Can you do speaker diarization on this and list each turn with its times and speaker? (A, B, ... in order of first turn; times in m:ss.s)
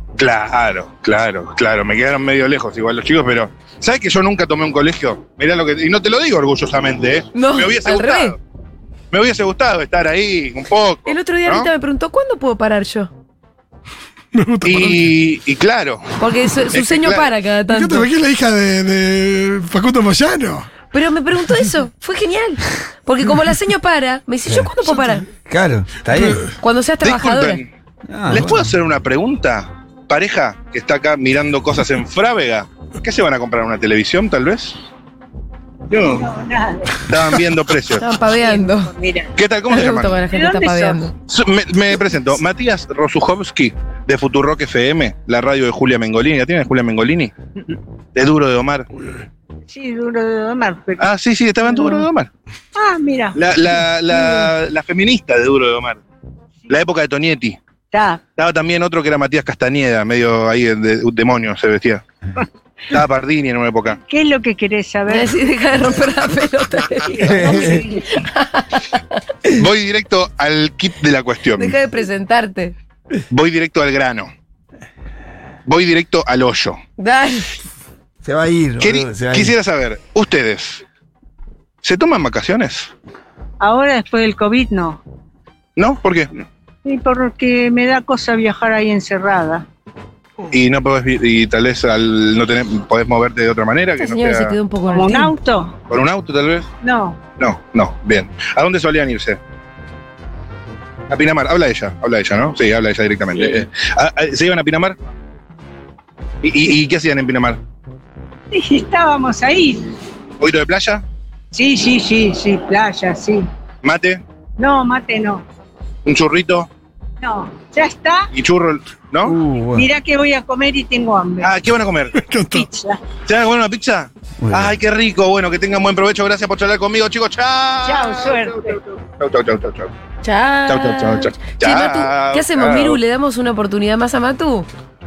0:00.2-0:08.4 A
0:07.3-0:08.4 B
0:09.1-0:11.7 A
0:11.0-0:13.1 B
0:14.3-0:15.1 C
0:14.6-0:16.1 A
0:16.2-0:18.1 B
0:16.7-0:17.3 A
0:17.7-0:20.7 C
0:20.9-0:25.2 B
0:25.4-0:26.4 D
0:26.6-0:27.6 B
0:27.0-0:27.7 A
0:28.0-0:28.7 D
0:28.3-0:34.7 A
0:37.1-0:38.1 A
0:38.0-0:38.9 B
0:38.7-0:39.3 E
0:39.4-0:40.2 A
0:39.7-0:41.1 B
0:41.3-0:47.3 A
0:48.1-0:48.9 A
0:49.7-0:51.0 E
0:51.0-0:52.3 A
0:52.8-0:53.3 E
0:53.3-0:56.0 A
0:54.1-0:54.5 E
0:56.7-0:57.6 A
0:57.9-0:58.2 E
0:58.4-1:02.0 A
1:02.9-1:04.0 A
1:04.0-1:05.2 E
1:05.1-1:09.6 B
1:07.2-1:07.8 D
1:07.2-1:08.0 E
1:09.5-1:11.7 A
1:11.6-1:12.7 B
1:13.3-1:14.3 A
1:15.6-1:16.8 A
1:17.0-1:17.5 B
1:18.2-1:19.5 D
1:18.8-1:20.8 A
1:21.8-1:22.9 A
1:23.6-1:25.0 E
1:25.8-1:26.3 A
1:26.8-1:29.6 E
1:30.5-1:34.6 A
1:34.0-1:35.4 B
1:34.9-1:35.7 E
1:35.9-1:36.7 A
1:36.8-1:37.2 E
1:37.4-1:39.4 A
1:41.1-1:45.0 A
1:46.4-1:47.6 A
1:48.5-1:49.8 E
1:50.4-1:51.0 A
1:51.5-1:53.4 E
1:53.8-1:54.2 A
1:54.6-1:55.4 E
1:56.0-1:56.7 A
1:57.2-1:58.3 E
1:58.3-1:59.3 A
1:59.2-1:59.9 D
1:59.8-2:01.4 E
2:01.4-2:02.1 A
2:02.1-2:02.7 C
2:02.5-2:02.9 E
2:03.2-2:09.9 A
2:04.4-2:04.7 D
2:07.9-2:08.8 E
2:10.2-2:14.7 B
2:10.7-2:13.0 A